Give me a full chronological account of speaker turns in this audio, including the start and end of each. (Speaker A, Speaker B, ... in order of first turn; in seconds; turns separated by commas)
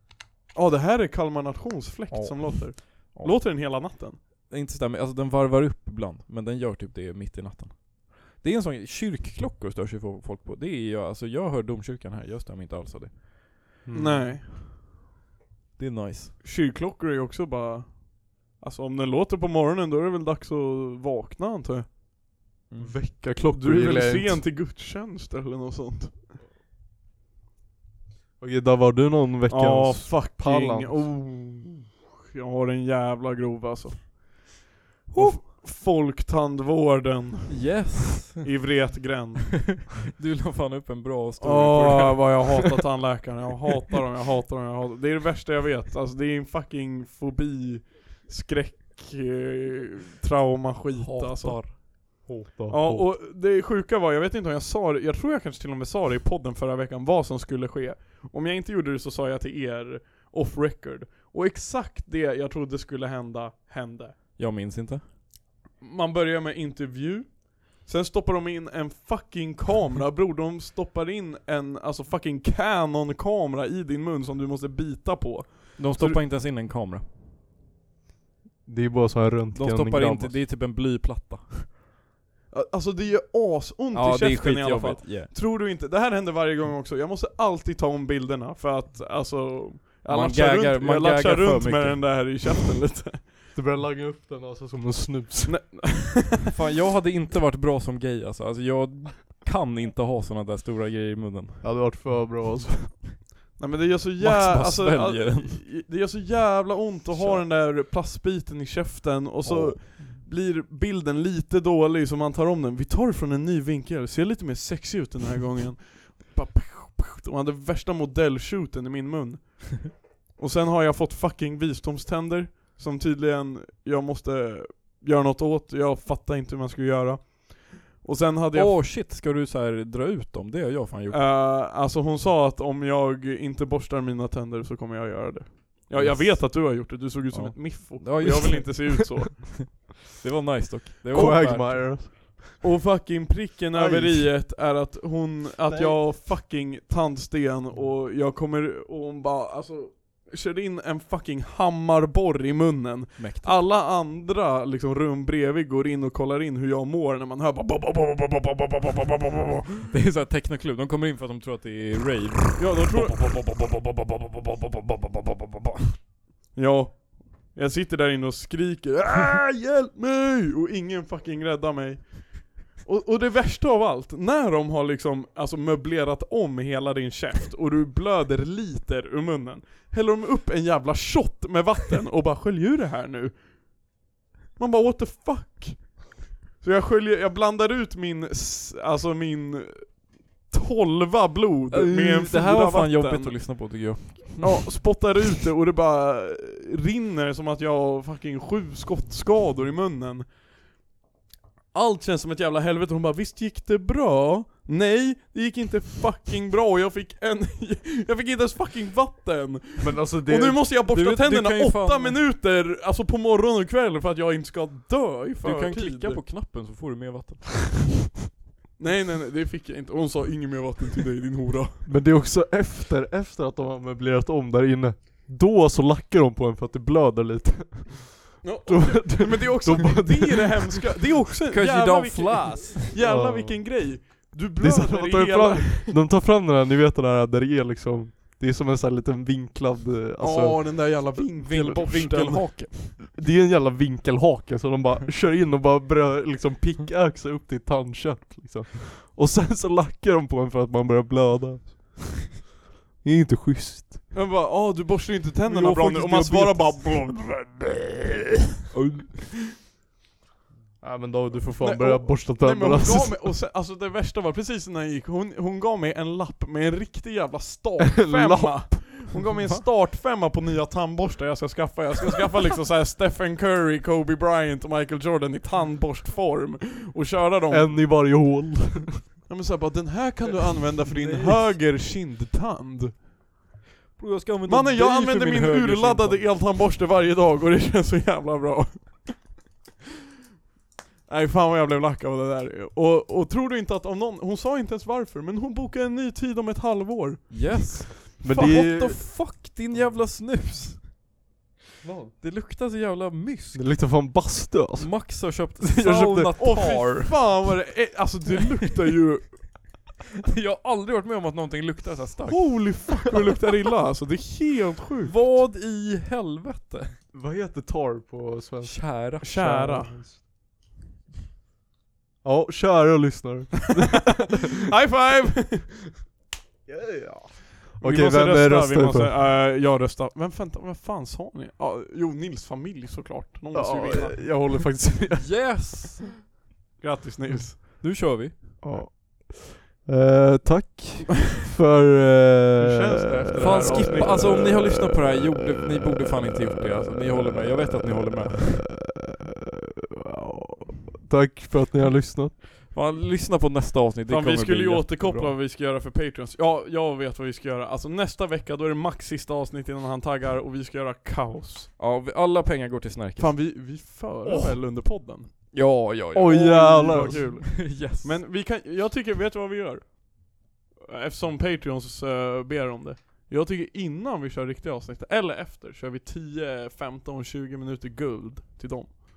Speaker A: 0.5-4.2, Speaker B: 2.1-13.2, Speaker C: 13.8-14.4, Speaker A: 13.9-14.4, Speaker B: 15.8-16.3, Speaker A: 16.4-21.9, Speaker B: 22.7-23.0, Speaker C: 22.8-24.4, Speaker A: 23.5-26.1, Speaker C: 28.4-31.1, Speaker A: 29.5-34.5, Speaker B: 35.1-35.5, Speaker A: 35.1-37.7, Speaker B: 37.5-38.6, Speaker A: 38.4-39.9, Speaker B: 39.6-42.8, Speaker A: 41.4-51.9, Speaker B: 50.9-51.8, Speaker C: 52.2-53.1, Speaker A: 52.7-64.2, Speaker B: 64.3-65.0, Speaker A: 65.8-76.2, Speaker B: 75.8-77.0, Speaker C: 78.6-80.4, Speaker B: 79.5-81.7, Speaker A: 82.5-93.3, Speaker B: 83.9-85.3, Speaker B: 90.1-92.5, Speaker C: 93.5-95.6, Speaker A: 95.5-96.4, Speaker B: 96.5-101.9, Speaker C: 101.6-103.1, Speaker A: 103.6-128.8, Speaker B: 104.2-105.6, Speaker B: 107.1-107.4, Speaker B: 109.8-110.2, Speaker B: 128.5-131.3, Speaker A: 131.1-139.8, Speaker B: 135.9-142.2, Speaker C: 141.1-142.6, Speaker A: 141.1-141.8, Speaker A: 142.6-159.7, Speaker C: 143.7-144.3, Speaker C: 145.6-146.0, Speaker B: 153.2-153.6, Speaker B: 159.9-165.9, Speaker A: 162.6-163.3, Speaker A: 166.5-183.4, Speaker A: 184.6-193.8, Speaker B: 191.7-194.6, Speaker A: 194.4-200.3, Speaker A: 201.7-216.2, Speaker C: 209.8-210.6, Speaker B: 210.9-212.2, Speaker B: 215.4-217.8, Speaker A: 218.8-221.8, Speaker C: 221.8-230.9, Speaker A: 228.4-236.0, Speaker B: 231.5-232.9, Speaker C: 233.0-233.6, Speaker C: 234.6-240.9, Speaker A: 240.2-242.5, Speaker B: 241.4-243.0, Speaker C: 243.1-252.4, Speaker C: 253.0-254.1, Speaker A: 254.1-258.2, Speaker B: 255.4-257.1, Speaker B: 258.7-259.2, Speaker C: 260.8-263.3, Speaker A: 261.6-278.0, Speaker C: 268.0-269.0, Speaker C: 277.5-279.1, Speaker A: 279.3-283.0, Speaker B: 281.0-281.4, Speaker B: 284.0-286.4, Speaker A: 284.5-289.3, Speaker A: 291.1-297.8, Speaker B: 297.3-300.9, Speaker C: 298.2-299.1, Speaker C: 301.8-302.1, Speaker B: 302.2-304.2, Speaker C: 303.5-306.3, Speaker B: 304.8-307.4, Speaker A: 306.4-309.6, Speaker B: 310.3-312.9, Speaker A: 312.3-315.4, Speaker B: 315.1-317.0, Speaker C: 317.1-320.2, Speaker B: 318.6-319.6, Speaker A: 319.2-320.0, Speaker C: 322.2-324.4, Speaker A: 324.6-325.8, Speaker C: 326.6-329.2, Speaker A: 327.8-334.4, Speaker C: 333.5-335.5, Speaker B: 335.2-336.1, Speaker A: 336.8-337.6, Speaker B: 337.6-338.3, Speaker C: 338.6-344.3, Speaker A: 342.6-344.4, Speaker B: 343.4-348.8, Speaker C: 350.2-352.4, Speaker B: 352.7-355.3, Speaker A: 354.1-361.7, Speaker B: 361.8-363.5, Speaker A: 363.2-365.6, Speaker B: 364.2-364.6, Speaker B: 365.5-366.6, Speaker C: 366.1-367.3, Speaker A: 366.2-378.9, Speaker B: 367.5-368.2